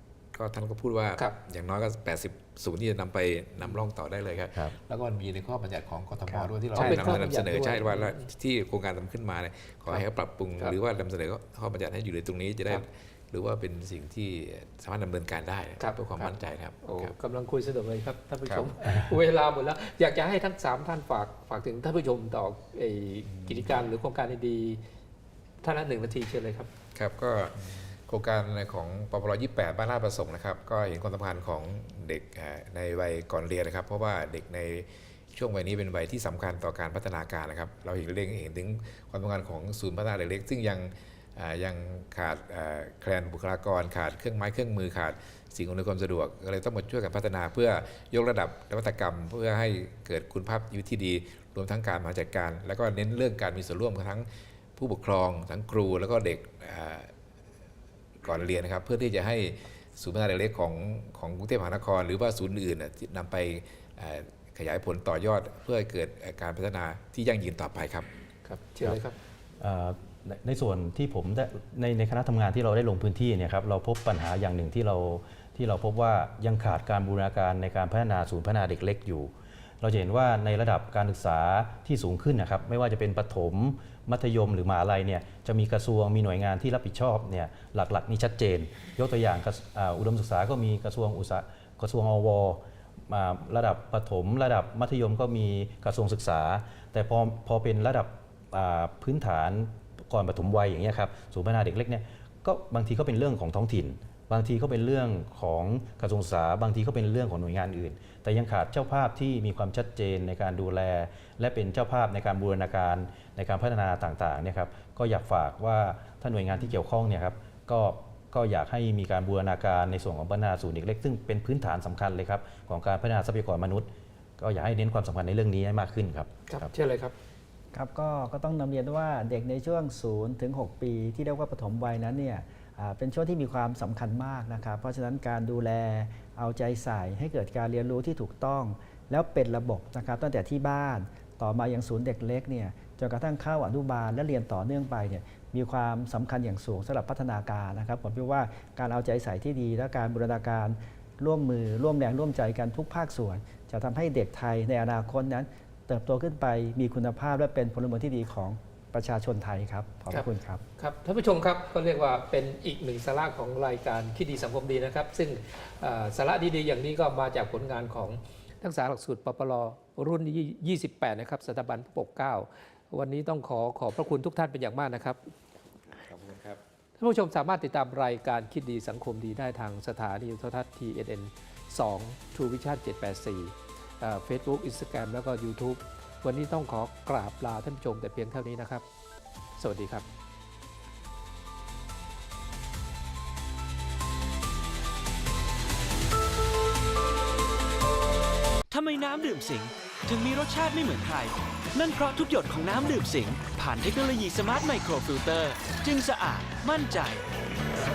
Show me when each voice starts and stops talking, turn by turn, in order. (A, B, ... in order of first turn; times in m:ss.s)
0:00.3-0:17.1 A
0:06.3-0:07.1 B
0:06.8-0:08.3 C
0:15.8-0:24.8 C
0:18.5-0:18.7 A
0:25.6-0:26.7 C
0:27.0-0:57.1 A
0:58.2-1:08.1 A
1:08.4-1:09.2 C
1:09.6-2:06.7 D
2:06.5-2:07.1 C
2:07.7-2:40.6 B
2:40.8-2:55.3 C
2:56.0-2:56.6 A
2:57.0-3:08.8 C
3:09.6-3:10.1 C
3:18.7-3:27.2 E